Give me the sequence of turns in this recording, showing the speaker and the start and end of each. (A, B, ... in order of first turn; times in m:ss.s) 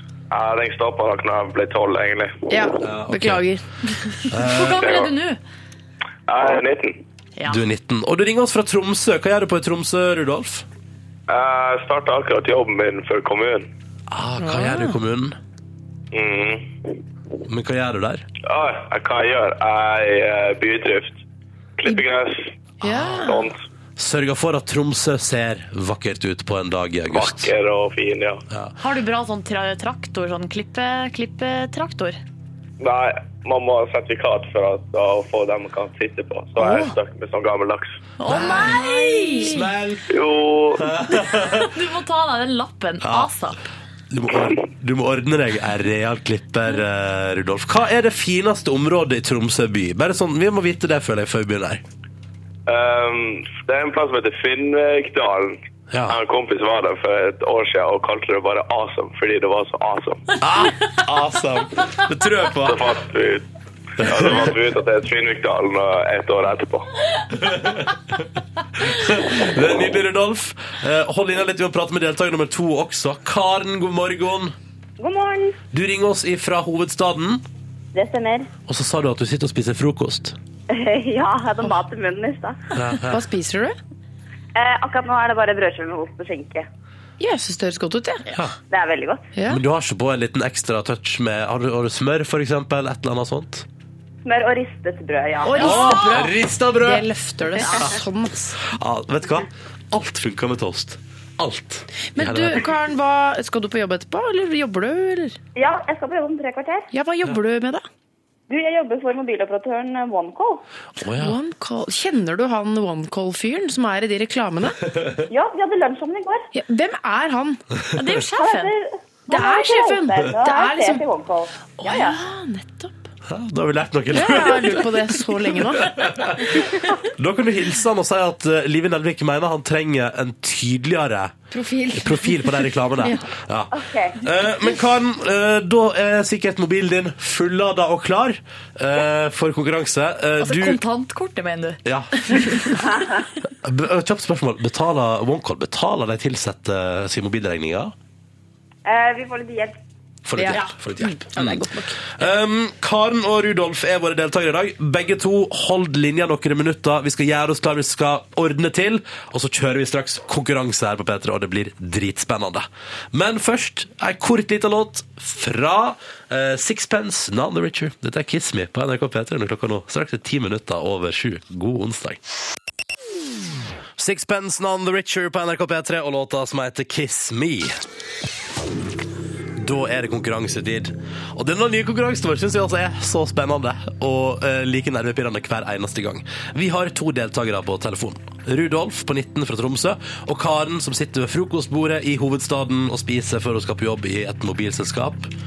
0:00.3-0:02.7 A
0:02.5-0:04.1 B
0:02.8-0:03.4 C
0:04.2-0:05.4 D
0:04.3-0:04.9 C
0:04.8-0:05.1 A
0:06.3-0:07.0 A
0:07.5-0:10.7 C
0:11.3-0:13.7 A
0:14.1-0:15.4 C
0:14.4-0:15.0 B
0:16.1-0:17.0 A
0:17.4-0:18.3 C
0:18.4-0:21.2 A
0:21.8-0:22.5 A
0:22.8-0:23.3 C
0:22.8-0:23.5 B
0:23.2-0:23.6 A
0:24.0-0:27.5 C
0:27.1-0:28.4 A
0:28.5-0:28.8 C
0:28.8-0:32.2 D
0:32.8-0:37.9 A
0:36.6-0:36.9 B
0:38.2-0:39.6 D
0:38.2-0:40.2 C
0:38.3-0:39.6 B
0:40.1-0:40.9 A
0:40.8-0:41.7 C
0:41.1-0:43.6 D
0:43.0-0:43.3 C
0:44.1-0:51.8 C
0:52.7-1:00.3 A
0:55.9-0:56.2 C
1:00.4-1:02.9 C
1:02.6-1:03.5 A
1:04.0-1:06.9 A
1:04.0-1:04.5 C
1:07.4-1:14.6 C
1:15.0-1:15.6 E
1:15.7-1:17.4 C
1:17.9-1:18.5 E
1:18.7-1:20.4 C
1:20.7-1:22.6 E
1:22.7-1:23.2 C
1:23.1-1:23.8 B
1:24.6-1:26.7 E
1:27.2-1:28.3 B
1:28.3-1:28.6 C
1:28.7-1:29.3 E
1:29.4-1:29.6 B
1:29.5-1:33.7 C
1:34.2-1:35.8 E
1:35.4-1:38.6 B
1:35.6-1:37.1 C
1:38.6-1:42.7 C
1:42.1-1:45.4 B
1:45.6-1:46.9 E
1:46.9-1:47.8 B
1:48.5-1:50.6 E
1:51.0-1:51.4 C
1:51.1-1:54.8 B
1:55.3-1:56.5 E
1:56.5-1:57.6 B
1:57.9-1:58.7 D
1:58.4-2:02.2 E
1:59.3-2:01.0 B
2:01.8-2:03.1 B
2:03.3-2:11.4 C
2:04.1-2:06.9 B
2:11.5-2:13.3 B
2:11.9-2:20.8 C
2:13.7-2:14.2 E
2:20.4-2:22.6 D
2:21.8-2:22.8 C
2:22.8-2:23.3 E
2:23.5-2:27.9 C
2:28.8-2:29.8 E
2:30.2-2:52.2 C
2:30.4-2:32.0 B
2:54.0-2:57.8 C
2:59.6-3:15.3 C